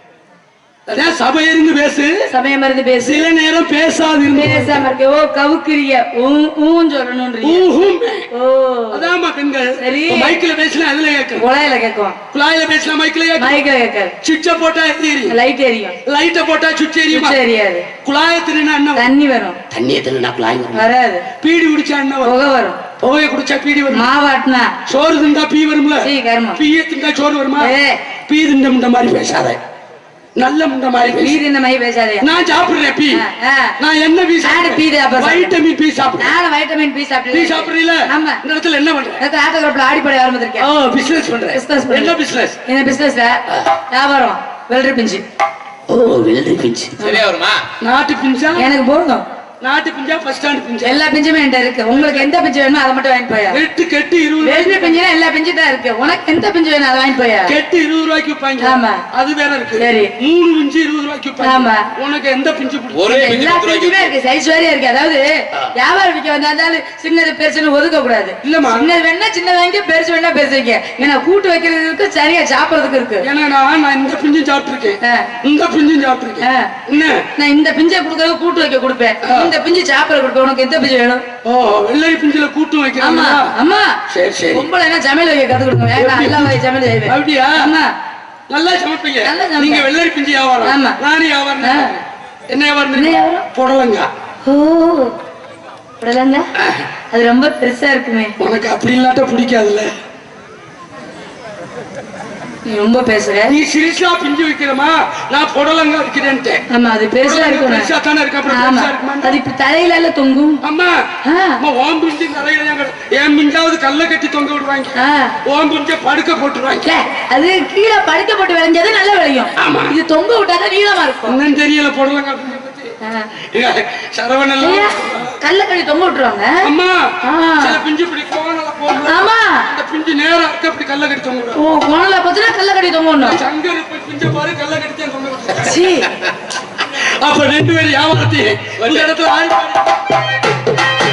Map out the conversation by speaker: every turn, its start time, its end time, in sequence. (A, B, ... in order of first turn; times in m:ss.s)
0:00.9-0:02.2 A
0:02.3-0:03.3 B
0:03.0-0:04.8 A
0:04.3-0:07.7 B
0:07.4-0:08.3 A
0:08.3-0:09.1 B
0:08.9-0:11.4 A
0:09.8-0:10.4 B
0:11.3-0:12.2 B
0:12.3-0:13.6 A
0:13.4-0:14.1 B
0:14.2-0:15.4 A
0:15.3-0:16.0 B
0:16.0-0:17.4 A
0:17.1-0:17.9 B
0:18.0-0:19.0 A
0:18.9-0:19.6 B
0:19.7-0:20.8 A
0:20.7-0:21.2 B
0:21.4-0:22.3 A
0:22.2-0:22.8 B
0:23.0-0:24.0 A
0:23.9-0:24.7 B
0:24.9-0:27.7 A
0:26.0-0:26.6 B
0:27.6-0:28.0 B
0:28.3-0:29.6 A
0:30.4-0:31.4 A
0:31.1-0:32.3 B
0:32.2-0:33.2 A
0:33.1-0:33.8 B
0:33.8-0:36.3 A
0:34.4-0:35.5 B
0:36.2-0:38.4 B
0:37.3-0:39.2 A
0:39.2-0:40.7 B
0:40.6-0:42.6 A
0:41.5-0:43.4 B
0:43.9-0:45.2 B
0:45.9-0:47.0 A
0:47.0-0:47.2 B
0:47.0-0:47.6 C
0:47.8-0:48.6 A
0:48.6-0:49.2 B
0:49.6-0:51.0 A
0:50.8-0:53.6 B
0:51.9-0:52.3 A
0:53.5-0:54.9 A
0:54.4-0:57.5 B
0:57.4-1:03.1 A
0:58.6-0:59.0 B
0:59.8-1:00.1 B
1:01.4-1:01.9 B
1:02.9-1:04.1 C
1:03.0-1:13.3 B
1:08.4-1:08.9 A
1:13.2-1:17.2 A
1:15.0-1:15.3 B
1:16.4-1:16.7 B
1:17.4-1:21.2 B
1:19.2-1:19.5 A
1:21.4-1:23.5 A
1:23.0-1:23.9 B
1:24.1-1:24.6 A
1:24.5-1:27.9 B
1:26.0-1:27.6 A
1:28.5-1:34.1 A
1:29.2-1:29.9 B
1:30.6-1:31.0 B
1:31.6-1:31.9 B
1:32.9-1:33.4 B
1:34.4-1:35.1 B
1:36.0-1:36.4 B
1:36.6-1:36.9 A
1:37.1-1:38.3 B
1:38.4-1:39.9 A
1:42.6-1:43.5 B
1:43.5-1:46.6 A
1:46.7-1:47.9 B
1:47.2-1:49.4 A
1:48.5-1:50.6 B
1:50.6-1:51.0 A
1:51.2-1:51.6 B
1:51.6-1:56.9 A
1:55.0-1:55.4 B
1:56.8-2:01.4 B
1:59.6-1:59.9 A
2:01.3-2:02.9 A
2:03.0-2:03.3 B
2:03.5-2:05.3 A
2:04.6-2:06.5 B
2:06.6-2:11.6 A
2:07.2-2:07.8 B
2:09.0-2:09.6 B
2:11.6-2:13.4 B
2:13.2-2:15.9 A
2:15.5-2:16.1 B
2:16.8-2:20.0 A
2:18.8-2:19.1 C